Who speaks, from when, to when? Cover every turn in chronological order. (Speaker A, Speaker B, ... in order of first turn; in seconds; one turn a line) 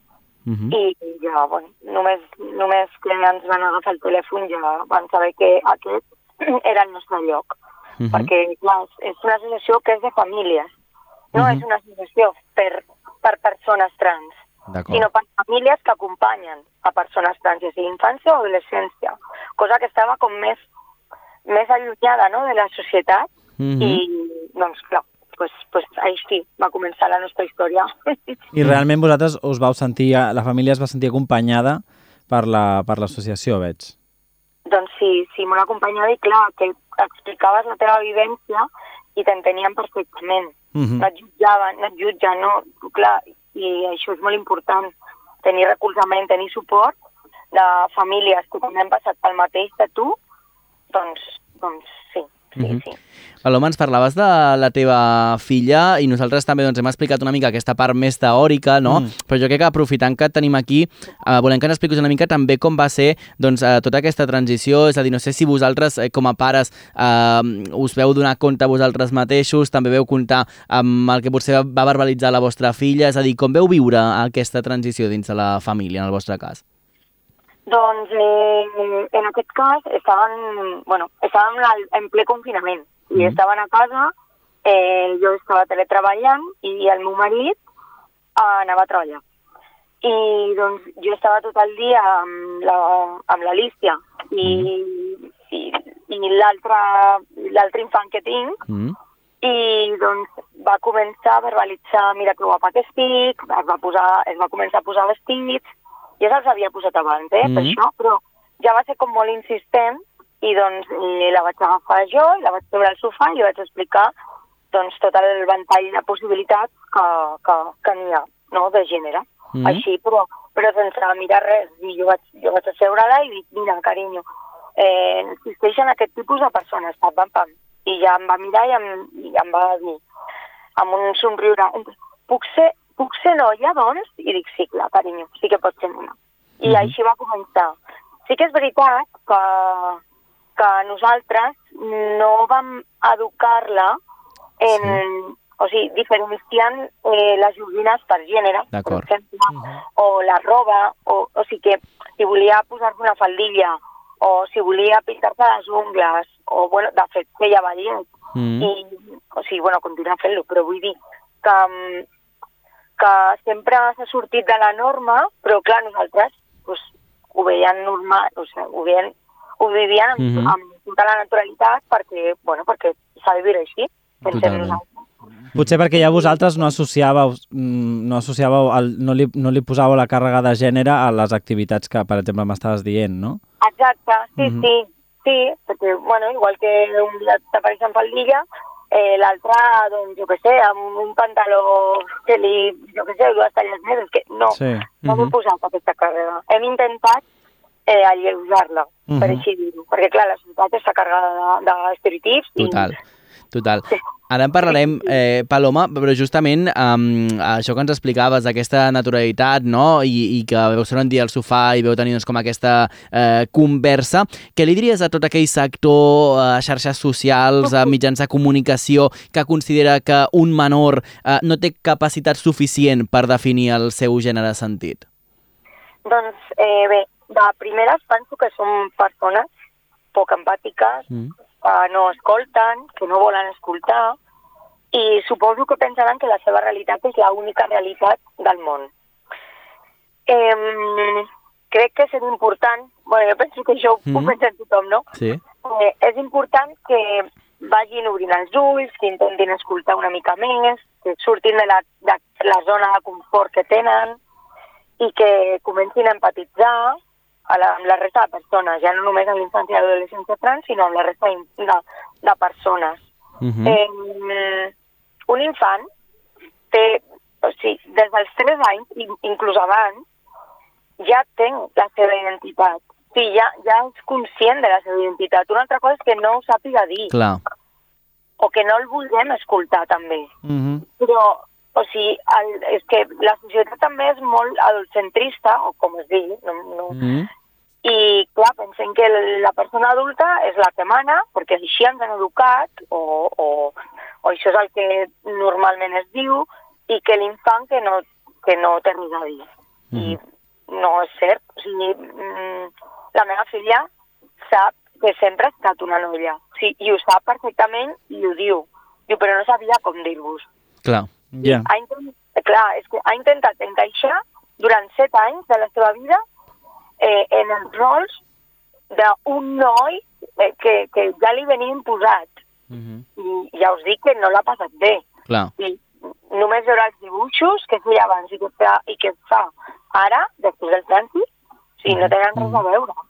Speaker A: 0.5-0.7
Speaker B: 0.7-7.5
Speaker A: 8.0-8.3
Speaker B: 8.1-10.7
Speaker C: 11.3-11.6
Speaker B: 11.4-14.3
Speaker A: 14.7-15.1
Speaker B: 14.9-20.6
Speaker B: 21.5-23.3
Speaker A: 23.6-24.0
Speaker B: 23.8-27.9
Speaker C: 28.5-33.9
Speaker B: 34.7-47.0
Speaker C: 40.8-41.1
Speaker B: 47.5-50.1
Speaker B: 50.9-53.0
Speaker A: 53.4-76.6
Speaker C: 58.9-59.1
Speaker B: 77.7-84.1
Speaker B: 84.6-87.6
Speaker B: 88.4-89.2
Speaker B: 90.0-98.6
Speaker A: 94.4-94.7
Speaker A: 98.7-99.0
Speaker B: 99.4-105.7
Speaker B: 106.2-114.1
Speaker A: 107.4-107.8
Speaker B: 114.7-124.2
Speaker A: 119.5-119.8
Speaker B: 124.8-130.0
Speaker B: 130.8-137.8
Speaker A: 136.7-136.9
Speaker B: 138.3-140.0
Speaker B: 140.6-144.0
Speaker B: 144.6-158.1
Speaker A: 144.7-145.0
Speaker A: 148.7-149.0
Speaker A: 158.3-158.7
Speaker B: 158.6-162.0
Speaker B: 163.0-175.1
Speaker A: 170.2-170.5
Speaker A: 174.3-174.8
Speaker C: 175.5-183.4
Speaker B: 183.6-197.2
Speaker C: 184.4-184.7
Speaker C: 194.5-194.8
Speaker A: 195.0-195.3
Speaker B: 197.9-202.9
Speaker C: 199.1-199.4
Speaker A: 202.6-202.9
Speaker A: 203.5-225.0
Speaker B: 217.6-217.9
Speaker B: 226.0-229.5
Speaker B: 230.1-231.0
Speaker B: 231.6-234.2
Speaker B: 234.9-238.9
Speaker B: 240.3-245.0
Speaker A: 244.1-244.3
Speaker A: 245.1-245.4
Speaker B: 245.6-254.2
Speaker B: 255.0-263.0
Speaker A: 263.4-263.8
Speaker B: 263.6-264.7
Speaker B: 265.3-265.9
Speaker B: 266.7-270.0
Speaker B: 271.0-277.1
Speaker A: 277.1-277.4
Speaker B: 278.4-280.3
Speaker C: 280.4-280.9
Speaker B: 281.0-287.0
Speaker A: 286.9-287.3
Speaker B: 287.8-303.9
Speaker B: 304.4-310.5
Speaker A: 310.8-311.1
Speaker C: 311.3-311.7
Speaker B: 311.4-316.2
Speaker B: 317.0-318.2
Speaker B: 318.9-322.3
Speaker A: 322.7-323.0
Speaker B: 323.2-325.0
Speaker B: 325.6-331.2
Speaker B: 331.8-333.0
Speaker A: 331.9-332.6